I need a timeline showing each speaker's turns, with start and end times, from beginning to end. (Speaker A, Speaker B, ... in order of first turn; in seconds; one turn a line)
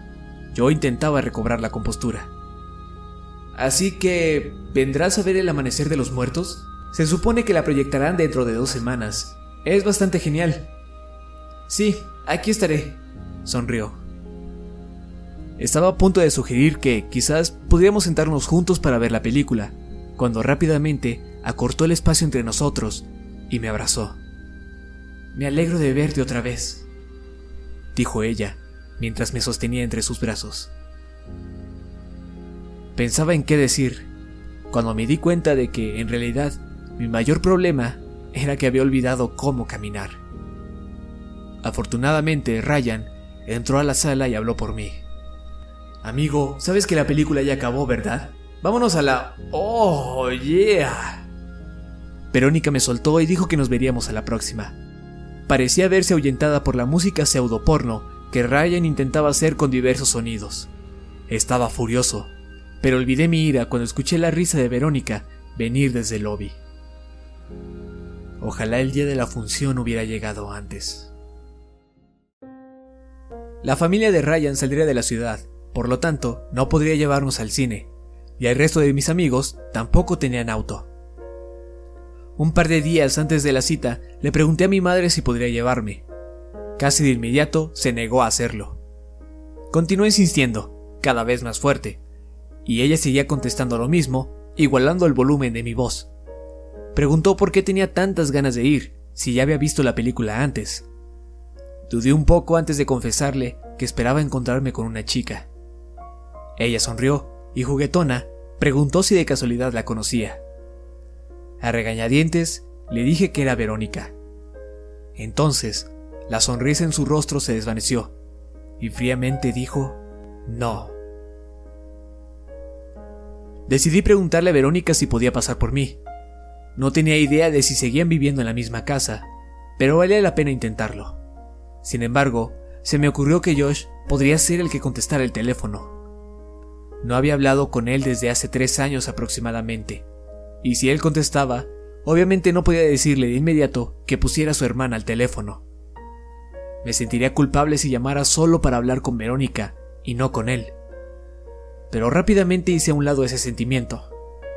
Speaker A: 0.5-2.3
Speaker A: 3.5-10.7
Speaker A: 11.7-14.0
Speaker A: 15.6-24.2
Speaker A: 25.3-26.9
Speaker A: 27.9-30.7
Speaker A: 33.0-34.1
Speaker A: 34.7-40.2
Speaker A: 41.6-45.0
Speaker A: 46.0-51.3
Speaker A: 52.3-54.8
Speaker A: 55.5-60.7
Speaker A: 61.3-66.6
Speaker A: 68.4-71.1
Speaker A: 73.6-80.9
Speaker A: 82.4-86.0
Speaker A: 86.8-88.8
Speaker A: 89.7-92.0
Speaker A: 92.6-96.1
Speaker A: 96.9-100.9
Speaker A: 101.9-105.5
Speaker A: 106.6-110.4
Speaker A: 111.6-114.1
Speaker A: 115.2-118.1
Speaker A: 118.8-120.9
Speaker A: 123.7-126.0
Speaker A: 126.8-129.3
Speaker A: 129.8-131.2
Speaker A: 131.8-136.0
Speaker A: 137.0-140.1
Speaker A: 140.6-145.6
Speaker A: 146.8-150.8
Speaker A: 151.9-154.1